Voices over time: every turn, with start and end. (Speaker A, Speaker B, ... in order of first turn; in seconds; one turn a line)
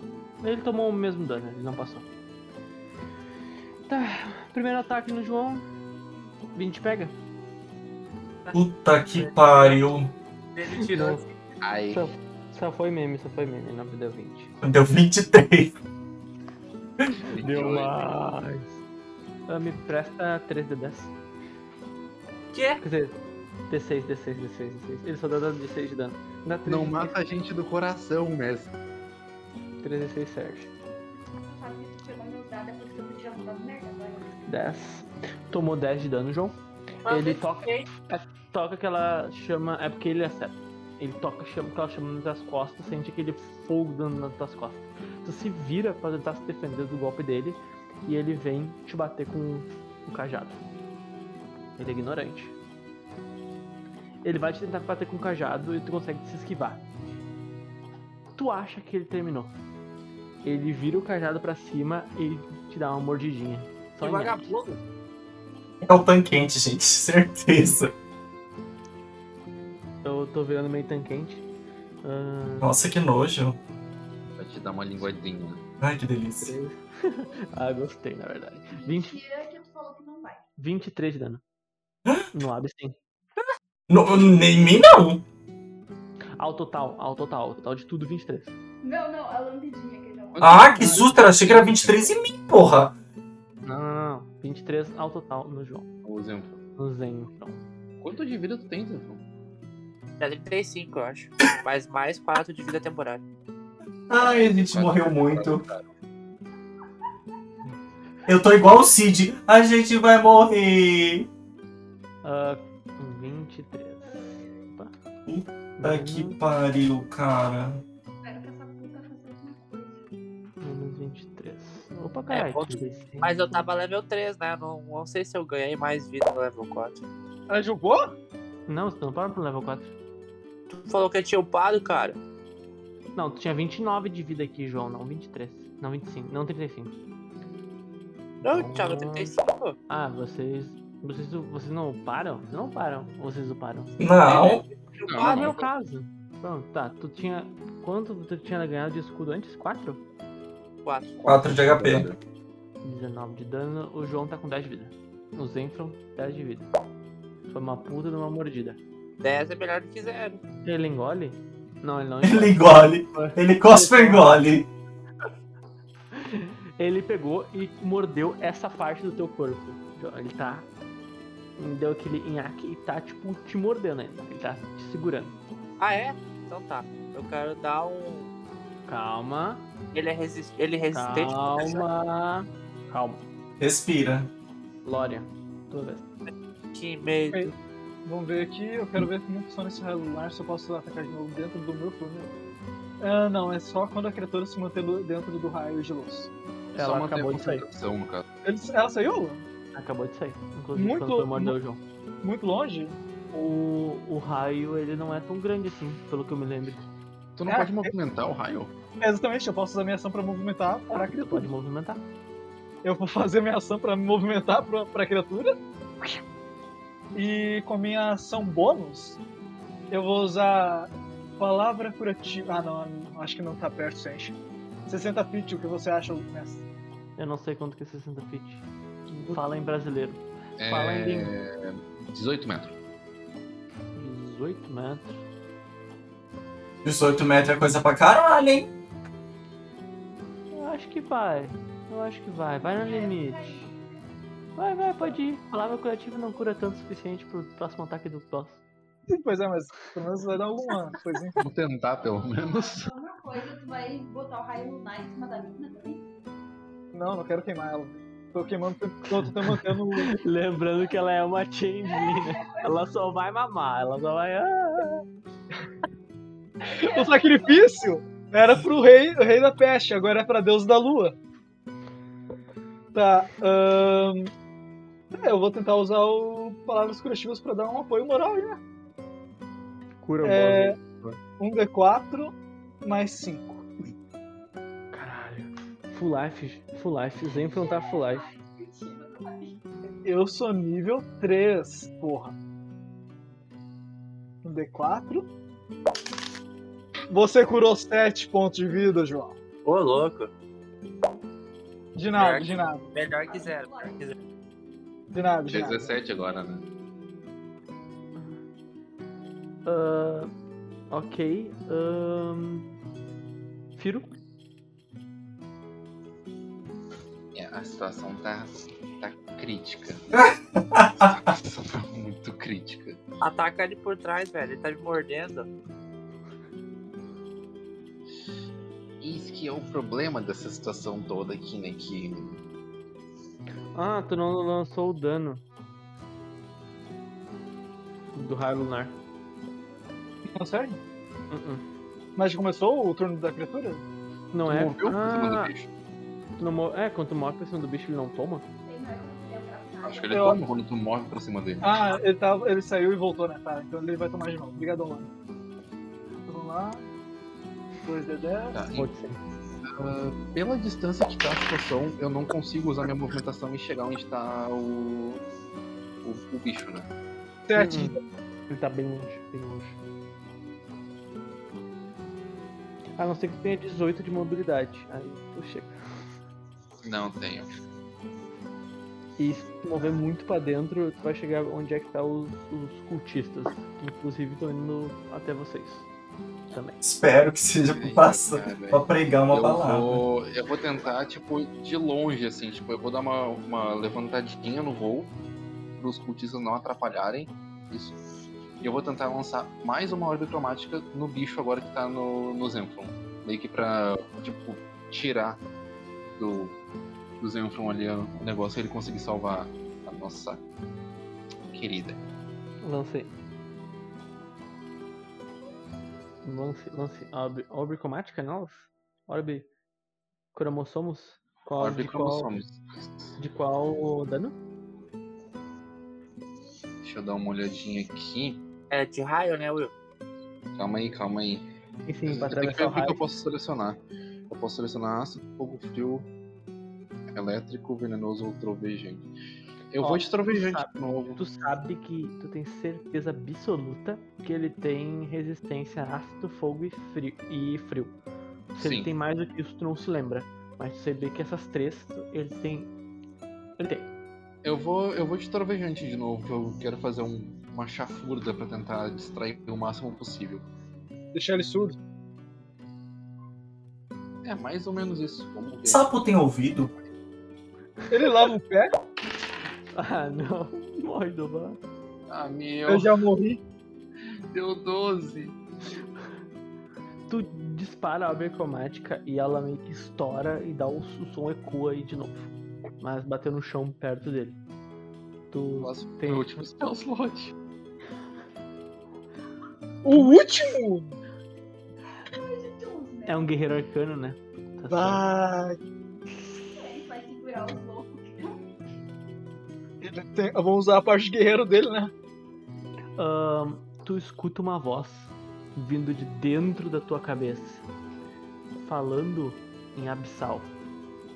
Speaker A: 0.4-2.0
Speaker A: 3.9-5.6
Speaker A: 6.5-7.2
Speaker B: 8.5-10.1
Speaker C: 9.1-9.9
Speaker C: 10.5-11.3
Speaker A: 10.9-11.2
Speaker D: 11.6-12.1
Speaker A: 11.9-14.5
Speaker B: 14.6-15.7
Speaker D: 17.2-18.1
Speaker A: 17.3-18.8
Speaker A: 19.5-21.1
Speaker C: 22.5-22.8
Speaker A: 22.8-27.2
Speaker D: 26.6-28.7
Speaker A: 29.8-30.7
Speaker E: 31.5-34.3
Speaker A: 34.5-50.6
Speaker C: 37.0-37.9
Speaker A: 51.8-52.5
Speaker A: 54.2-56.8
Speaker A: 58.4-59.5
Speaker A: 60.4-64.5
Speaker C: 64.0-64.8
Speaker B: 65.8-67.9
Speaker A: 70.0-71.4
Speaker A: 72.0-72.7
Speaker B: 72.6-73.6
Speaker D: 74.4-75.6
Speaker B: 75.8-76.5
Speaker A: 76.4-79.2
Speaker E: 78.7-80.4
Speaker A: 80.6-81.4
Speaker A: 82.3-83.0
Speaker B: 83.9-85.2
Speaker A: 86.4-88.5
Speaker E: 88.8-90.8
Speaker D: 90.3-92.1
Speaker B: 90.4-92.9
Speaker A: 93.6-95.9
Speaker D: 96.0-96.6
Speaker A: 96.8-97.7
Speaker D: 98.0-99.2
Speaker C: 100.2-103.2
Speaker B: 104.1-105.6
Speaker D: 104.5-105.9
Speaker B: 108.3-111.3
Speaker A: 112.2-114.9
Speaker E: 114.0-114.6
Speaker B: 115.2-117.8
Speaker A: 115.8-116.4
Speaker E: 118.2-120.0
Speaker A: 120.6-123.7
Speaker C: 122.3-127.0
Speaker F: 127.5-128.1
Speaker A: 128.7-129.9
Speaker C: 130.7-132.2
Speaker A: 133.1-136.9
Speaker C: 138.4-139.8
Speaker A: 138.4-139.3
Speaker A: 139.9-143.9
Speaker B: 144.0-144.6
Speaker C: 144.2-145.6
Speaker D: 145.1-145.6
Speaker A: 145.2-150.0
Speaker C: 150.8-151.2
Speaker D: 151.2-152.2
Speaker B: 151.2-152.1
Speaker A: 152.8-156.7
Speaker A: 157.5-158.8
Speaker C: 159.2-160.4
Speaker A: 160.6-164.4
Speaker B: 162.2-164.7
Speaker A: 166.1-170.7
Speaker A: 171.6-175.3
Speaker C: 175.8-178.3
Speaker A: 178.9-179.6
Speaker C: 179.9-181.8
Speaker A: 180.9-183.2
Speaker B: 183.6-184.3
Speaker A: 184.8-186.0
Speaker C: 186.7-187.5
Speaker F: 188.0-192.3
Speaker F: 193.0-196.3
Speaker D: 196.7-198.2
Speaker A: 196.8-197.6
Speaker F: 198.4-199.4
Speaker A: 199.7-201.8
Speaker F: 200.7-201.6
Speaker F: 202.2-203.0
Speaker A: 203.3-206.8
Speaker D: 207.3-208.7
Speaker F: 207.5-207.9
Speaker F: 209.0-211.5
Speaker A: 210.9-212.0
Speaker F: 212.8-216.2
Speaker F: 217.1-219.2
Speaker F: 219.9-226.6
Speaker A: 227.2-231.3
Speaker D: 230.6-232.8
Speaker A: 233.9-235.2
Speaker B: 236.8-238.7
Speaker A: 240.5-243.7
Speaker E: 242.6-243.9
Speaker A: 244.6-248.6
Speaker F: 249.1-251.4
Speaker D: 251.4-252.9
Speaker E: 252.4-256.0
Speaker F: 256.9-260.1
Speaker A: 259.2-265.0
Speaker E: 261.8-262.7
Speaker E: 266.6-267.9
Speaker F: 266.8-271.1
Speaker F: 272.9-274.3
Speaker F: 275.1-278.6
Speaker A: 280.0-281.2
Speaker F: 280.2-280.8
Speaker F: 281.4-283.7
Speaker A: 284.9-288.3
Speaker E: 287.3-289.6
Speaker F: 290.0-292.3
Speaker F: 294.4-295.3
Speaker F: 297.1-299.4
Speaker C: 299.6-300.3
Speaker F: 301.9-302.9
Speaker C: 302.1-304.2
Speaker E: 303.3-304.2
Speaker F: 305.1-305.9
Speaker D: 305.5-306.6
Speaker A: 309.6-310.3
Speaker A: 310.9-312.7
Speaker A: 313.7-314.1
Speaker D: 317.3-320.0
Speaker B: 320.1-321.3
Speaker D: 321.0-323.0
Speaker C: 323.2-325.5
Speaker D: 329.0-332.4
Speaker A: 333.7-335.4
Speaker A: 338.1-338.9
Speaker F: 340.4-340.8
Speaker A: 341.3-341.6
Speaker F: 342.1-343.8
Speaker A: 344.3-345.5
Speaker D: 344.5-345.7
Speaker A: 346.4-348.4
Speaker E: 348.6-350.3
Speaker D: 349.8-351.7
Speaker F: 350.1-350.4
Speaker F: 351.6-355.1
Speaker F: 356.2-356.9
Speaker F: 357.8-358.6
Speaker D: 358.5-358.9
Speaker A: 358.7-359.2
Speaker D: 359.6-365.2
Speaker D: 366.0-366.9
Speaker F: 367.5-368.0
Speaker A: 367.6-368.0
Speaker A: 368.5-369.8
Speaker A: 373.0-375.7
Speaker D: 376.8-377.5
Speaker A: 379.2-385.9
Speaker A: 386.5-386.8
Speaker B: 386.8-390.0
Speaker D: 387.6-395.1
Speaker D: 395.8-398.0
Speaker D: 398.6-405.4
Speaker D: 406.2-406.6
Speaker D: 407.2-410.4
Speaker D: 411.5-412.0
Speaker A: 412.6-413.1
Speaker A: 416.2-419.5
Speaker A: 420.3-422.3
Speaker D: 421.6-423.1
Speaker A: 423.2-424.3
Speaker D: 426.8-428.4
Speaker C: 428.7-429.7
Speaker D: 430.6-431.5
Speaker A: 431.9-433.0
Speaker D: 432.0-436.1
Speaker D: 437.1-439.1
Speaker D: 439.7-441.2
Speaker A: 439.8-447.9
Speaker A: 448.5-452.7
Speaker D: 448.6-448.9
Speaker A: 453.6-453.9
Speaker D: 454.4-460.5
Speaker F: 461.1-461.8
Speaker D: 464.2-465.9
Speaker B: 465.6-466.7
Speaker F: 467.9-468.7
Speaker A: 469.7-471.6
Speaker D: 472.1-473.0
Speaker F: 472.7-473.4
Speaker D: 474.3-475.4
Speaker A: 477.1-484.4
Speaker A: 485.3-486.2
Speaker D: 485.6-487.3
Speaker F: 489.8-490.9
Speaker E: 492.1-493.3
Speaker A: 493.1-495.1
Speaker F: 494.7-495.6
Speaker E: 496.5-498.4
Speaker F: 499.8-501.9
Speaker A: 503.0-507.6
Speaker A: 508.6-510.5